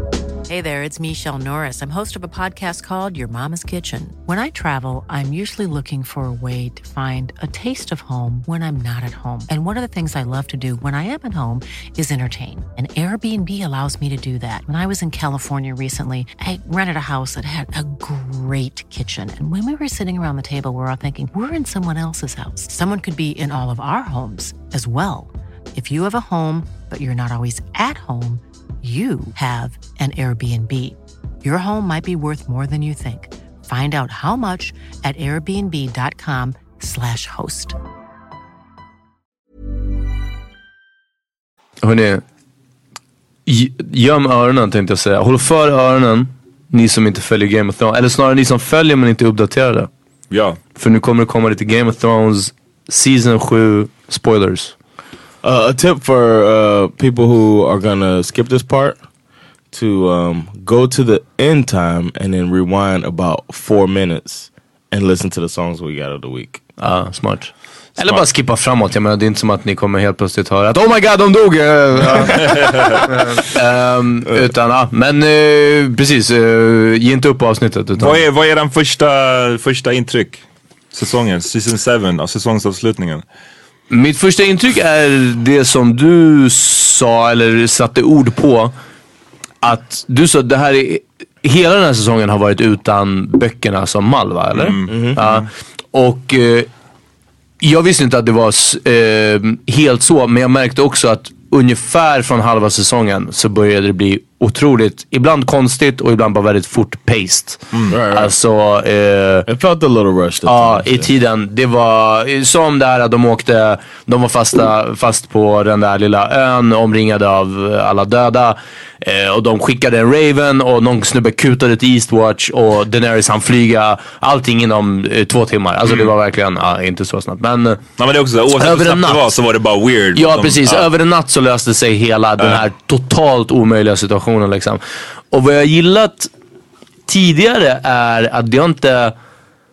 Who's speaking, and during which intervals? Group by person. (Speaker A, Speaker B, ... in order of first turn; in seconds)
Speaker A: 0.5-37.8
Speaker B: 41.8-42.2, 43.5-49.9, 50.8-54.8, 66.8-78.2, 83.9-88.7, 89.6-96.7, 97.6-109.5, 110.5-127.8, 128.6-129.4, 130.2-136.3, 137.1-139.2
Speaker C: 50.3-50.6, 68.0-68.2, 72.3-73.1, 78.0-80.4, 80.9-83.2, 94.5-95.4, 128.0-130.9
Speaker D: 55.4-59.0, 59.7-66.6, 94.9-95.2, 107.9-108.3, 109.5-111.1